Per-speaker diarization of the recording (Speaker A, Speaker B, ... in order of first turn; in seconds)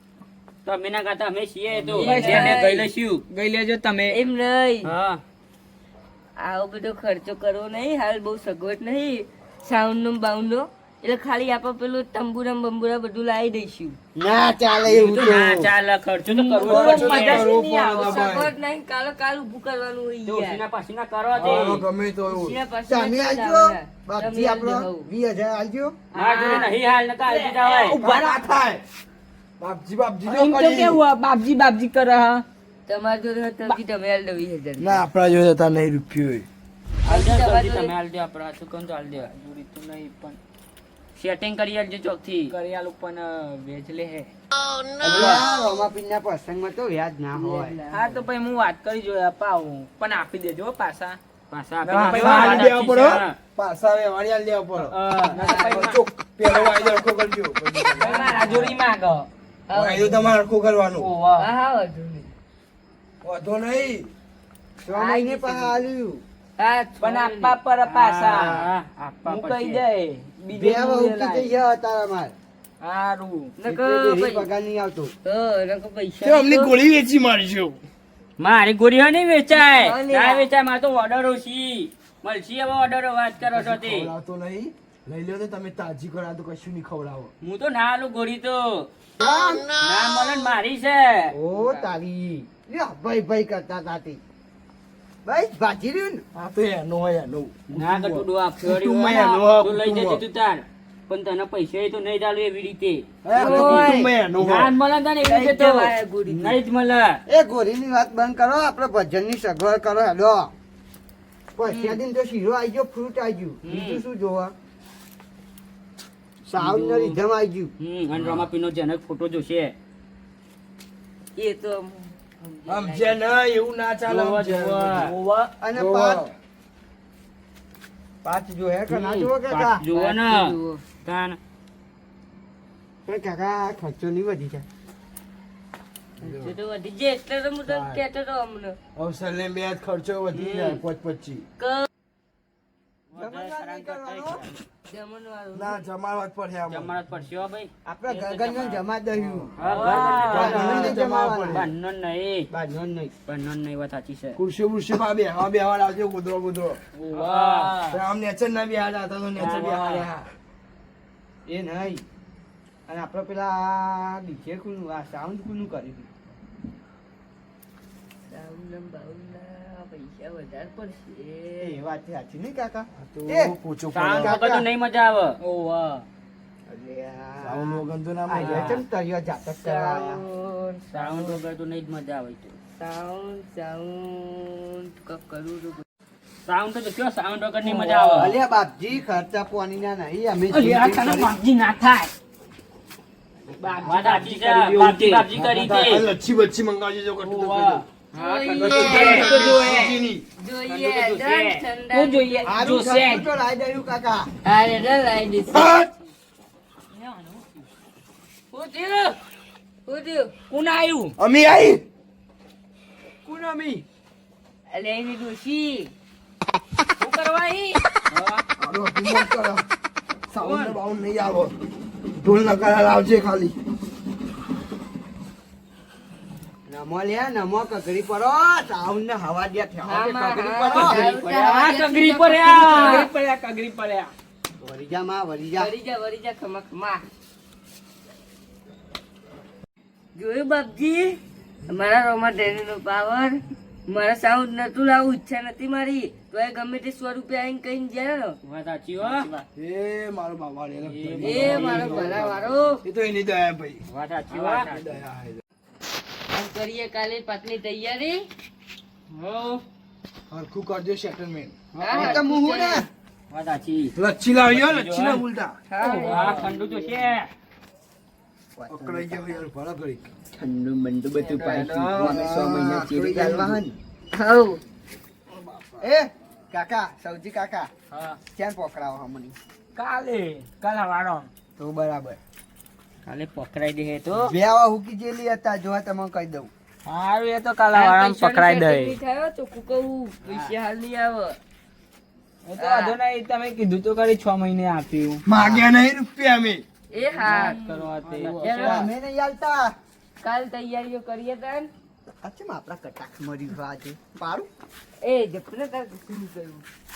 Speaker A: 0.7-3.2, 4.8-5.2, 14.8-17.5, 20.2-21.8, 26.1-28.0, 37.0-39.3, 41.1-42.5, 51.5-53.4, 54.8-55.4, 67.8-69.8, 78.4-84.1, 87.4-88.9, 89.8-91.8, 97.7-107.2, 113.7-114.0, 116.5-117.2, 117.8-119.7, 124.1-125.2, 128.9-131.4, 140.3-140.8, 143.1-144.6, 146.7-148.8, 149.6-151.0, 151.5-152.5, 153.3-154.4, 157.0-158.0, 159.3-160.1, 173.9-175.4, 178.4-178.8, 180.9-182.5, 186.4-188.3, 193.8-196.1, 198.2-199.4, 200.7-201.6, 208.5-208.9, 232.4-233.0, 248.4-249.4, 250.8-252.3, 253.9-255.0, 259.1-259.6, 261.9-262.2, 263.3-265.2, 265.8-267.3, 270.4-272.5, 283.0-284.3
Speaker B: 1.9-2.8, 3.3-4.2, 16.2-18.3, 26.1-26.7, 27.2-28.5, 30.2-32.4, 39.1-40.4, 42.5-44.3, 47.9-51.2, 51.8-52.8, 55.3-56.9, 58.0-59.3, 60.9-61.5, 67.0-68.7, 69.2-71.5, 72.8-73.5, 149.6-150.4, 157.1-157.8, 175.4-176.0, 190.5-192.1, 193.6-195.3, 197.2-197.8, 199.1-200.1, 201.9-203.3, 206.9-207.7, 210.5-211.1, 230.7-234.1, 265.8-267.0, 271.1-272.2, 279.8-281.3, 286.9-288.9, 292.5-295.2, 297.1-298.7
Speaker C: 2.0-2.8, 4.1-4.9, 6.4-14.0, 16.9-17.2, 17.9-20.6, 22.3-25.1, 26.2-26.5, 32.9-35.1, 37.0-37.9, 47.4-48.2, 55.3-56.0, 58.0-58.8, 59.7-60.3, 61.4-62.3, 64.9-65.8, 66.6-67.6, 73.6-74.5, 75.2-76.8, 79.5-80.5, 103.3-104.1, 105.2-106.6, 111.7-112.0, 121.3-123.4, 129.9-130.8, 136.2-138.8, 141.6-141.8, 144.9-145.8, 168.3-171.8, 179.6-181.3, 182.8-185.8, 198.1-199.4, 200.4-202.4, 204.4-206.1, 209.8-210.3, 214.7-215.9, 217.0-217.7, 229.8-233.1, 235.6-237.0, 240.1-243.4, 243.9-248.4, 251.2-252.8, 256.3-258.3, 261.8-262.8, 265.7-266.5, 274.1-274.6, 287.7-291.4, 292.6-292.9, 296.9-297.9, 298.4-298.9, 300.2-301.7, 305.0-306.6
Speaker D: 14.1-15.7, 22.9-25.9, 45.0-47.8, 64.8-66.2, 70.5-72.3, 73.6-75.1, 89.2-89.7, 91.3-94.2, 95.2-96.2, 107.3-110.5, 111.5-114.5, 116.4-117.7, 125.6-126.2, 128.2-129.8, 133.1-134.7, 143.1-144.4, 147.8-149.5, 150.2-151.6, 152.5-153.1, 161.4-162.0, 162.9-166.1, 171.6-173.5, 174.2-174.7, 176.7-180.2, 187.6-191.3, 202.4-204.3, 226.7-231.1, 234.6-235.7, 261.9-262.9, 268.6-269.4, 272.0-273.8, 275.8-277.7, 278.3-279.4, 281.6-282.2, 284.1-286.5, 295.4-295.7, 298.4-299.7, 302.2-304.5
Speaker E: 16.6-18.5, 21.3-22.6, 28.0-28.8, 29.6-31.0, 34.8-36.5, 45.0-45.4, 51.9-58.6, 59.7-61.1, 63.2-64.1, 76.2-77.8, 83.5-87.3, 96.3-100.2, 103.2-104.7, 118.1-118.5, 122.7-126.3, 136.2-136.5, 137.7-138.0, 138.9-141.4, 145.5-147.0, 149.2-149.5, 150.1-151.7, 154.3-156.8, 157.9-160.3, 173.0-174.4, 177.4-178.8, 193.9-197.8, 198.6-200.2, 205.5-205.8, 211.2-211.8, 213.2-213.7, 218.6-219.7, 220.3-221.5, 222.2-223.6, 249.6-255.4, 260.3-261.5, 263.9-265.6, 268.7-270.0, 272.1-273.5, 295.2-296.6, 298.0-298.8